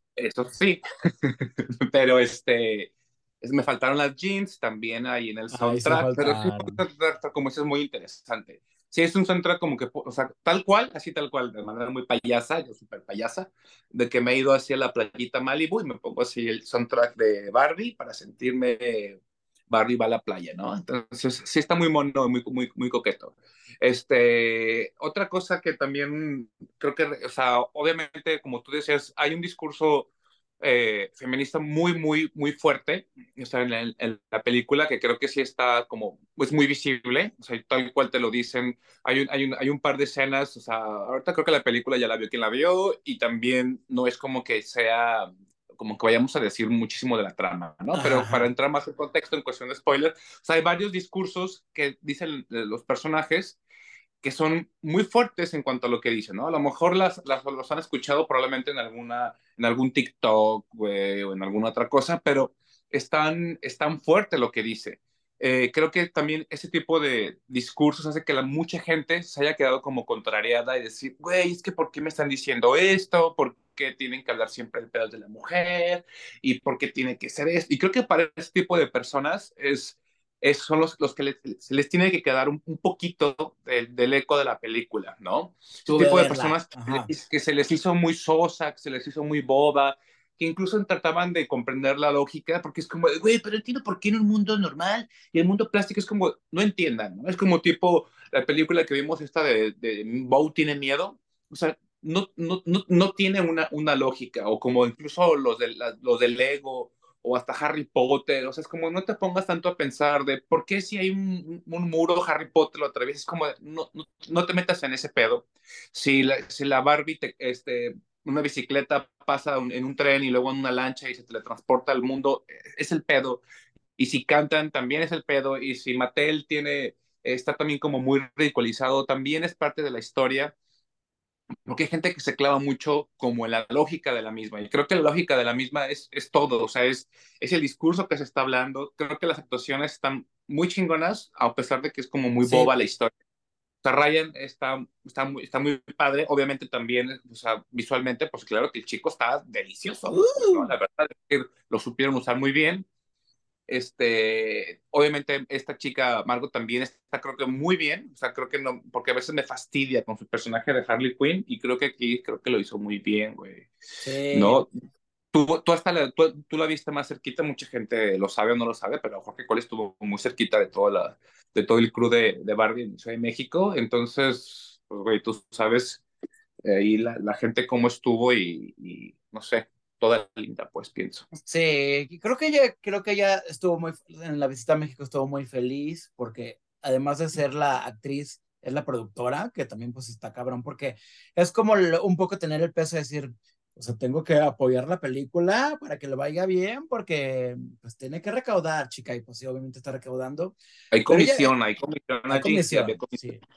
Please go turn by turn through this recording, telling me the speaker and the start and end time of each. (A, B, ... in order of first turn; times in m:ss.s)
0:00.2-0:19.2 A
0:05.5-0:06.8 B
0:19.7-0:30.1 A
0:30.6-0:53.6 A
0:47.9-0:48.5 B
0:54.2-2:03.4 A
1:25.9-1:27.1 B
2:04.0-2:10.5 A
2:11.7-2:23.1 A
2:22.4-2:22.7 B
2:23.8-2:32.9 A
2:30.1-2:30.7 B
2:33.7-2:43.7 A
2:44.0-2:44.7 B
2:44.3-2:44.7 A
2:45.3-2:56.0 A
2:56.6-3:01.3 A
3:01.4-3:20.6 B
3:20.9-3:23.2 A
3:21.1-3:21.5 B
3:22.3-3:23.4 B